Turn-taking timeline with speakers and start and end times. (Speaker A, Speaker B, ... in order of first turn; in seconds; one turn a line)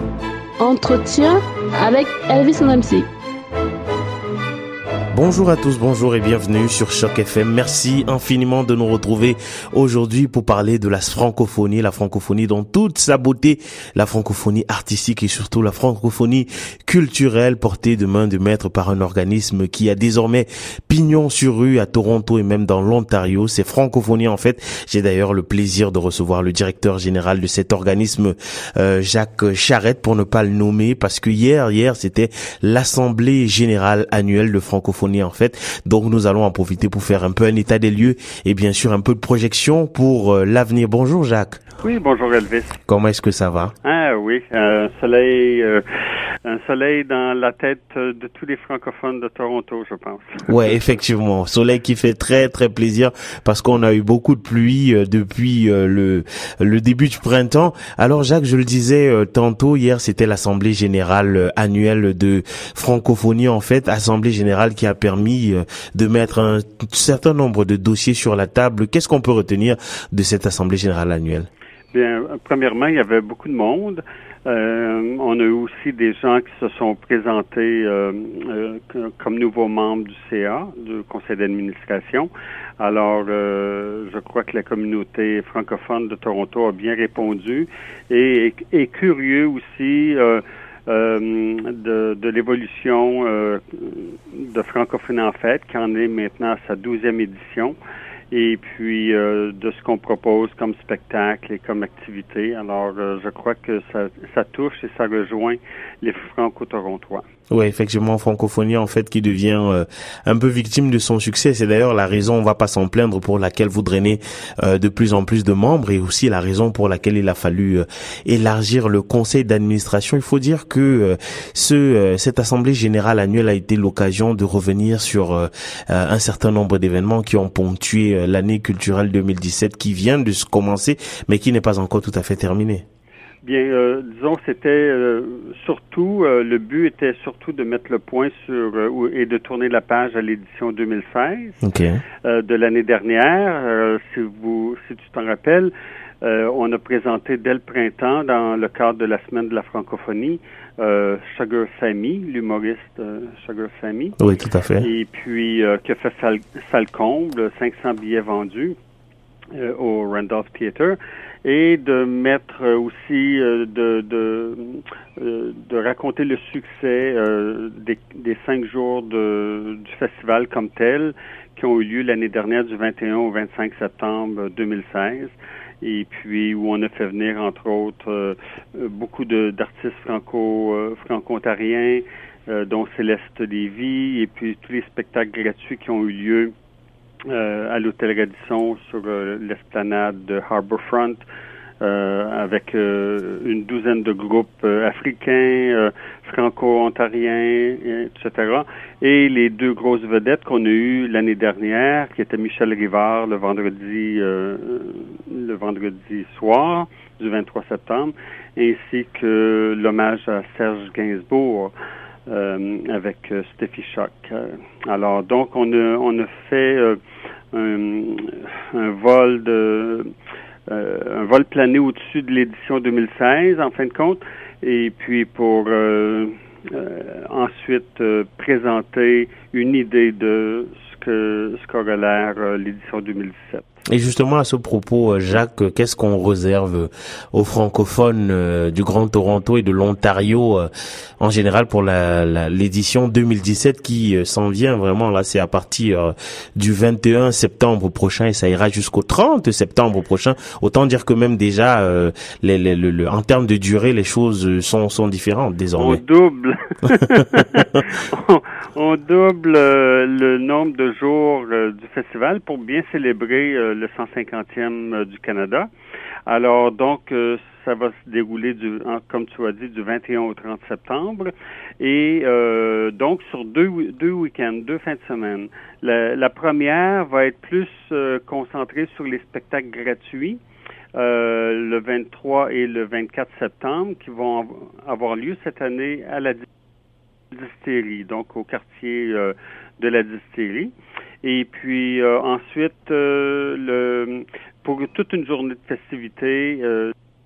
Speaker A: 0.6-3.1
Speaker B: 5.1-41.6
Speaker C: 41.8-42.8
Speaker B: 42.9-43.7
Speaker C: 43.8-45.8
Speaker C: 46.5-50.7
Speaker B: 50.5-71.5
Speaker C: 71.9-97.8
Speaker C: 98.3-107.2
Speaker B: 107.5-132.8
Speaker C: 133.4-141.6
Speaker B: 141.6-142.0
Speaker C: 142.2-145.7
Speaker C: 146.2-154.2
Speaker B: 154.2-154.9
Speaker C: 154.8-158.8
Speaker C: 159.5-186.5
Speaker C: 187.3-191.2
Speaker C: 191.8-211.7
Speaker C: 212.3-217.0
Speaker C: 217.5-220.1
Speaker C: 220.7-233.7
Speaker B: 233.9-240.7
Speaker B: 241.2-256.0
Speaker C: 255.8-265.7
Speaker C: 266.3-280.4
Speaker C: 280.9-286.5
Speaker C: 287.3-296.9